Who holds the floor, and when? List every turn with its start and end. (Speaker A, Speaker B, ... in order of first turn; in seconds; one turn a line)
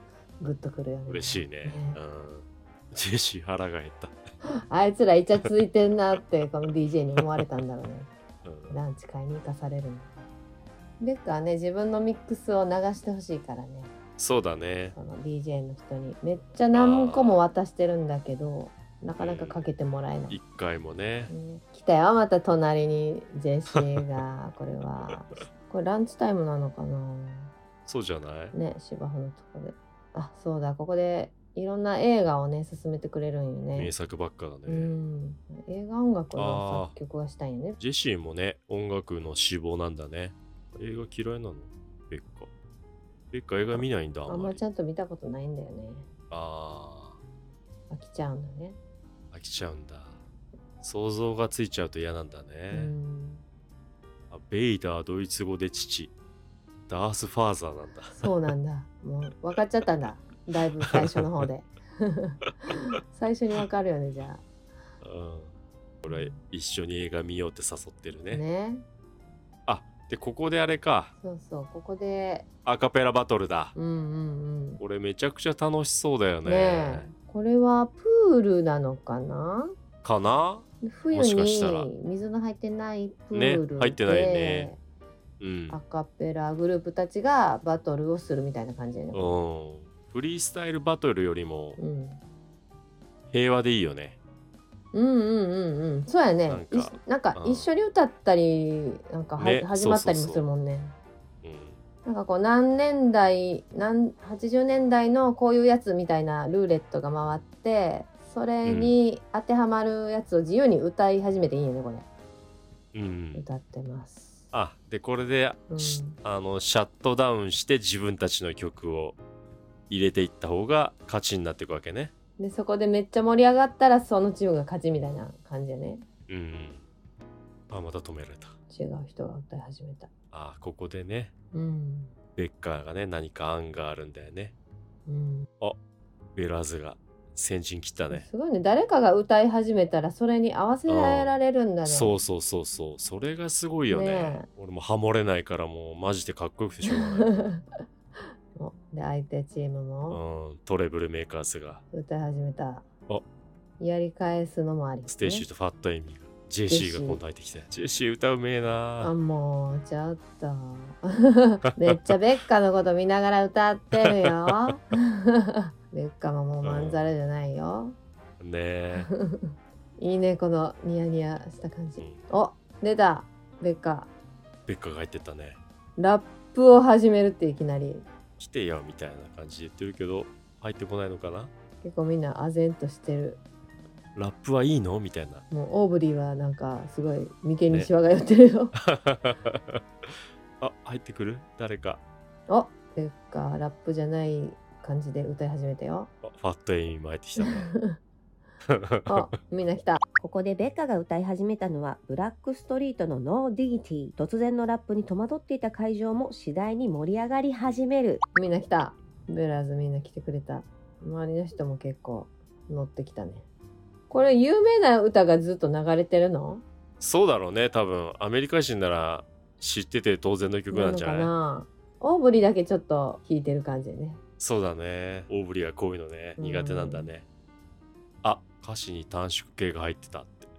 Speaker A: 0.4-2.0
Speaker B: 1.1-4.2
Speaker A: 4.7-8.1
Speaker B: 8.4-8.8
Speaker A: 8.7-10.2
Speaker A: 11.0-13.9
Speaker B: 14.2-14.9
Speaker A: 14.9-20.4
Speaker B: 16.7-17.4
Speaker B: 19.2-19.7
Speaker B: 20.3-21.3
Speaker A: 21.3-27.5
Speaker B: 27.9-28.5
Speaker A: 28.5-33.9
Speaker B: 33.7-34.9
Speaker A: 34.6-37.8
Speaker B: 36.4-37.0
Speaker B: 37.8-42.5
Speaker B: 43.3-44.6
Speaker A: 43.7-46.1
Speaker B: 46.3-47.2
Speaker A: 47.9-48.8
Speaker B: 49.3-50.2
Speaker B: 50.8-52.9
Speaker A: 52.7-53.4
Speaker B: 54.3-56.1
Speaker B: 56.9-58.3
Speaker A: 58.1-64.4
Speaker B: 60.9-61.2
Speaker B: 65.0-68.4
Speaker A: 66.0-66.4
Speaker A: 68.3-68.8
Speaker B: 69.7-71.1
Speaker A: 71.2-72.5
Speaker B: 72.6-73.7
Speaker A: 73.7-74.8
Speaker B: 74.8-77.1
Speaker A: 76.4-79.7
Speaker B: 80.0-81.9
Speaker A: 80.8-84.8
Speaker B: 83.3-84.7
Speaker B: 85.4-85.8
Speaker A: 85.7-89.4
Speaker B: 89.1-91.8
Speaker A: 91.8-92.2
Speaker B: 93.3-94.2
Speaker A: 94.9-101.0
Speaker B: 96.5-97.7
Speaker B: 99.4-100.5
Speaker B: 101.4-101.8
Speaker A: 102.0-112.0
Speaker B: 108.6-108.9
Speaker B: 112.9-113.4
Speaker A: 113.3-114.5
Speaker B: 114.5-119.2
Speaker A: 115.7-116.2
Speaker B: 119.9-122.1
Speaker A: 122.4-126.0
Speaker B: 126.3-126.8
Speaker B: 127.7-128.5
Speaker A: 128.7-130.1
Speaker B: 130.3-131.3
Speaker A: 131.5-132.1
Speaker B: 132.3-134.5
Speaker A: 135.1-135.5
Speaker B: 136.3-138.3
Speaker A: 138.1-142.2
Speaker B: 140.9-147.3
Speaker A: 143.9-144.5
Speaker A: 146.9-147.7
Speaker A: 148.6-150.2
Speaker B: 150.1-151.8
Speaker A: 151.9-152.9
Speaker A: 153.8-155.4
Speaker B: 155.1-159.1
Speaker A: 156.7-157.2
Speaker A: 159.0-168.0
Speaker B: 166.6-167.1
Speaker B: 168.4-169.1
Speaker A: 168.9-174.1
Speaker B: 172.0-172.2
Speaker B: 174.7-175.6
Speaker A: 176.0-178.1
Speaker B: 178.4-181.5
Speaker A: 181.8-183.4
Speaker B: 184.1-185.4
Speaker A: 185.5-188.7
Speaker B: 188.8-192.0
Speaker A: 192.5-196.1
Speaker B: 196.2-197.7
Speaker A: 197.4-198.0
Speaker B: 198.7-199.2
Speaker A: 199.1-200.0
Speaker C: 200.2-208.2
Speaker A: 208.3-213.4
Speaker A: 214.1-216.6
Speaker B: 217.0-221.3
Speaker A: 220.7-224.2
Speaker B: 224.4-227.2
Speaker A: 226.4-227.1
Speaker B: 228.2-230.5